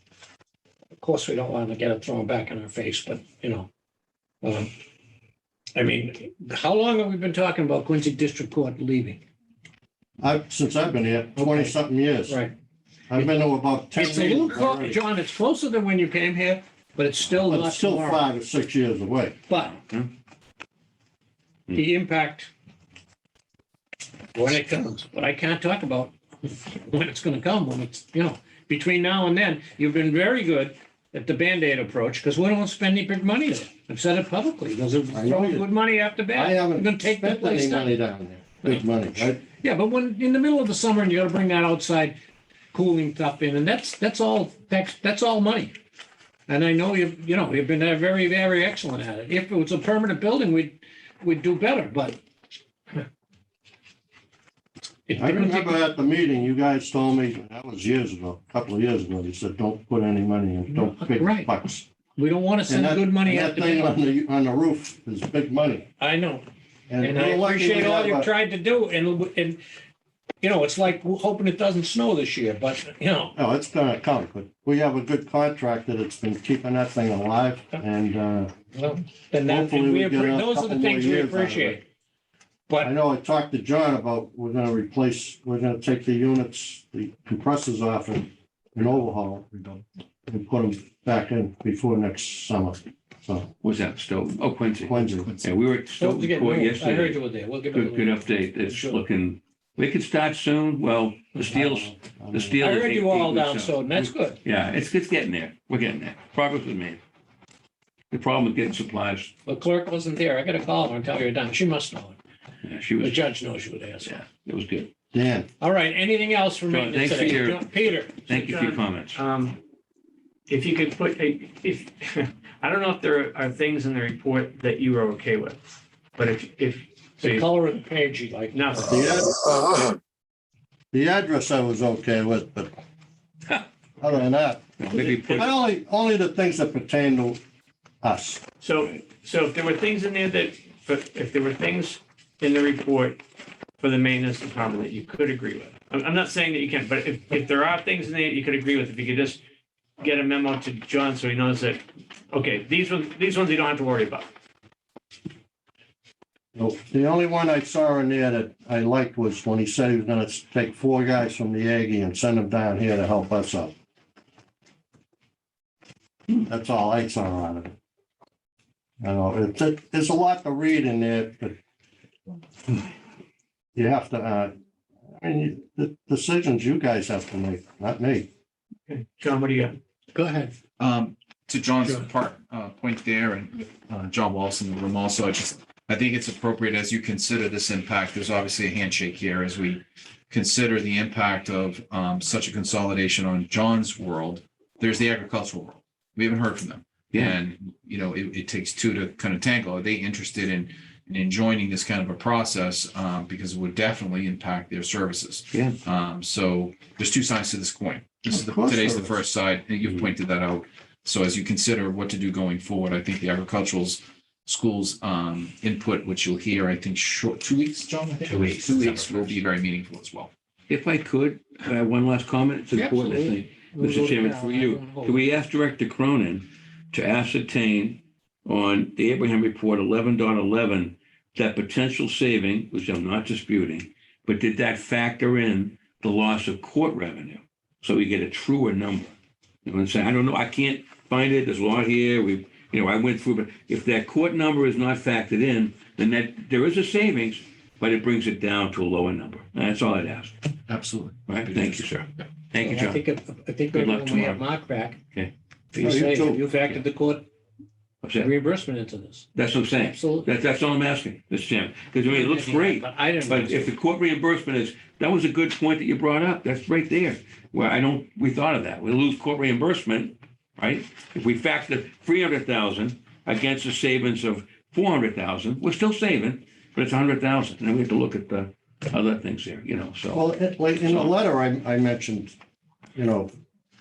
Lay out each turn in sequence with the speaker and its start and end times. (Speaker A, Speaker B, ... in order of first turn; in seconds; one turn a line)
Speaker A: 1.0-3.7
Speaker A: 4.4-4.7
Speaker A: 5.8-9.2
Speaker B: 10.2-12.4
Speaker A: 11.4-11.7
Speaker A: 12.3-12.5
Speaker B: 13.1-15.0
Speaker A: 13.9-18.3
Speaker B: 17.5-19.4
Speaker A: 19.5-19.8
Speaker C: 19.6-20.1
Speaker A: 21.7-22.5
Speaker A: 24.4-37.9
Speaker B: 35.1-35.7
Speaker B: 36.3-39.4
Speaker A: 39.4-42.2
Speaker A: 42.7-45.7
Speaker A: 46.5-52.2
Speaker A: 55.1-55.8
Speaker B: 55.2-61.9
Speaker A: 60.7-61.5
Speaker A: 62.2-64.0
Speaker B: 62.7-65.9
Speaker A: 66.0-66.5
Speaker B: 66.9-68.3
Speaker A: 67.0-69.6
Speaker A: 70.4-73.3
Speaker B: 73.4-78.5
Speaker A: 78.7-81.8
Speaker B: 79.5-81.8
Speaker B: 82.8-89.5
Speaker D: 89.5-89.8
Speaker B: 90.3-93.5
Speaker C: 93.6-107.0
Speaker B: 94.8-95.3
Speaker D: 95.2-95.5
Speaker A: 96.0-99.0
Speaker B: 101.5-102.6
Speaker A: 102.6-104.4
Speaker C: 108.1-109.3
Speaker A: 109.5-112.2
Speaker C: 112.6-113.2
Speaker A: 113.0-114.2
Speaker C: 114.0-114.9
Speaker B: 115.1-115.5
Speaker A: 115.6-118.2
Speaker C: 116.7-119.2
Speaker E: 118.3-119.6
Speaker E: 120.5-125.6
Speaker E: 126.2-127.5
Speaker A: 127.2-128.6
Speaker E: 128.5-129.2
Speaker B: 128.8-129.8
Speaker B: 130.9-132.7
Speaker B: 134.0-137.4
Speaker C: 134.8-135.5
Speaker B: 138.0-138.4
Speaker E: 138.6-143.2
Speaker E: 143.8-149.4
Speaker E: 150.0-154.3
Speaker B: 156.6-163.7
Speaker B: 166.4-167.7
Speaker B: 169.0-171.6
Speaker B: 173.8-174.5
Speaker B: 175.2-178.3
Speaker E: 178.9-179.8
Speaker A: 180.2-180.5
Speaker D: 180.8-220.3
Speaker C: 205.5-205.8
Speaker B: 208.3-209.2
Speaker C: 220.7-250.3
Speaker A: 222.7-225.3
Speaker D: 250.7-251.8
Speaker C: 251.3-253.0
Speaker A: 252.6-255.0
Speaker C: 253.7-254.4
Speaker A: 255.7-257.3
Speaker B: 255.8-256.4
Speaker C: 258.0-258.3
Speaker A: 258.2-260.3
Speaker C: 259.4-280.2
Speaker A: 262.1-263.7
Speaker B: 280.1-282.4
Speaker C: 280.8-281.1
Speaker B: 282.9-283.3